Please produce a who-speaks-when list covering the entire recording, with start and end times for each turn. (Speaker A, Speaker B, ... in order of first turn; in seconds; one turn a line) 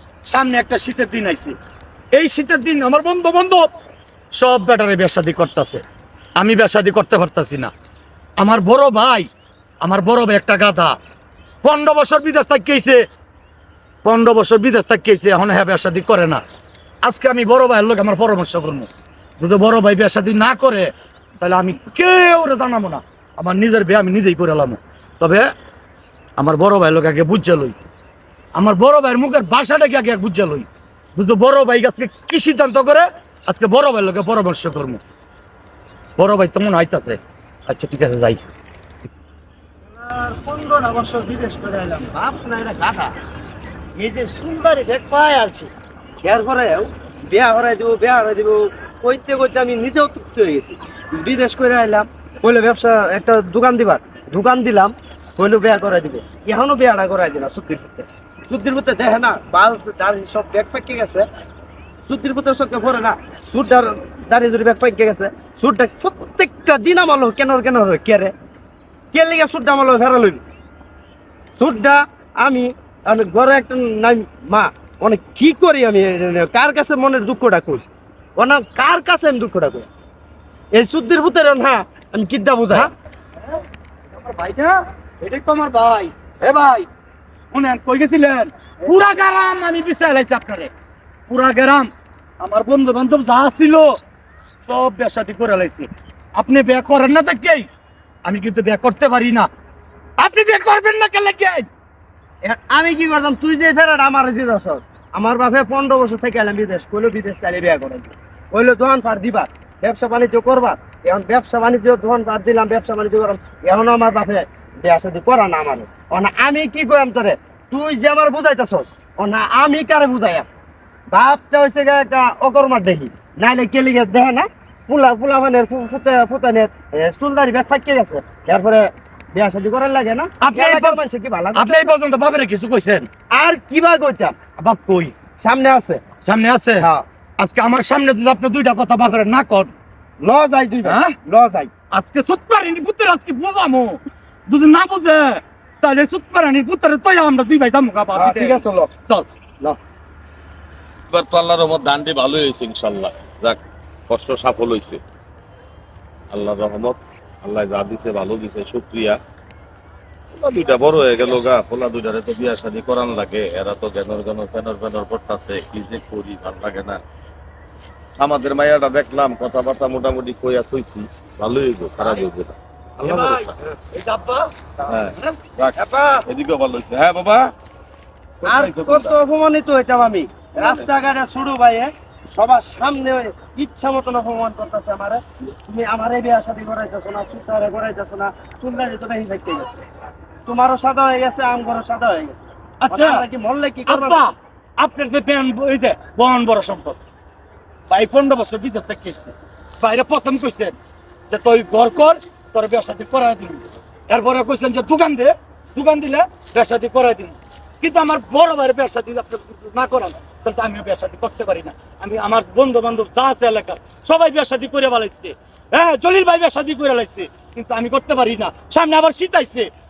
Speaker A: 0.3-1.6
Speaker A: 2.1-3.7
Speaker A: 4.3-5.8
Speaker A: 6.4-7.7
Speaker A: 8.4-9.3
Speaker A: 9.8-10.9
Speaker A: 11.6-13.0
Speaker A: 14.0-16.4
Speaker A: 17.0-18.9
Speaker A: 19.4-25.5
Speaker A: 26.4-27.8
Speaker A: 28.6-35.0
Speaker A: 36.2-38.4
Speaker B: 39.8-43.1
Speaker B: 44.0-61.2
Speaker B: 62.1-68.3
Speaker B: 69.1-70.4
Speaker B: 71.6-77.8
Speaker B: 78.4-79.9
Speaker B: 80.7-82.9
Speaker A: 84.1-86.9
Speaker A: 87.5-90.7
Speaker A: 91.3-94.0
Speaker A: 94.7-97.7
Speaker A: 98.2-99.5
Speaker A: 100.2-101.7
Speaker B: 102.4-120.5
Speaker B: 121.1-131.9
Speaker A: 130.4-131.0
Speaker A: 131.5-133.1
Speaker B: 133.3-134.3
Speaker A: 134.6-135.1
Speaker B: 135.4-136.0
Speaker A: 136.2-136.9
Speaker B: 136.8-137.0
Speaker A: 137.4-139.7
Speaker B: 140.2-141.7
Speaker A: 140.8-141.1
Speaker A: 141.9-149.3
Speaker B: 148.1-148.9
Speaker C: 151.1-155.0
Speaker C: 156.3-159.2
Speaker C: 160.3-167.0
Speaker C: 168.2-173.5
Speaker A: 173.0-174.5
Speaker C: 174.9-175.8
Speaker B: 175.8-176.2
Speaker C: 176.3-177.5
Speaker C: 178.4-179.1
Speaker B: 178.4-189.7
Speaker B: 190.4-194.2
Speaker A: 192.8-193.2
Speaker A: 193.9-197.0
Speaker A: 197.9-200.7
Speaker A: 201.3-219.7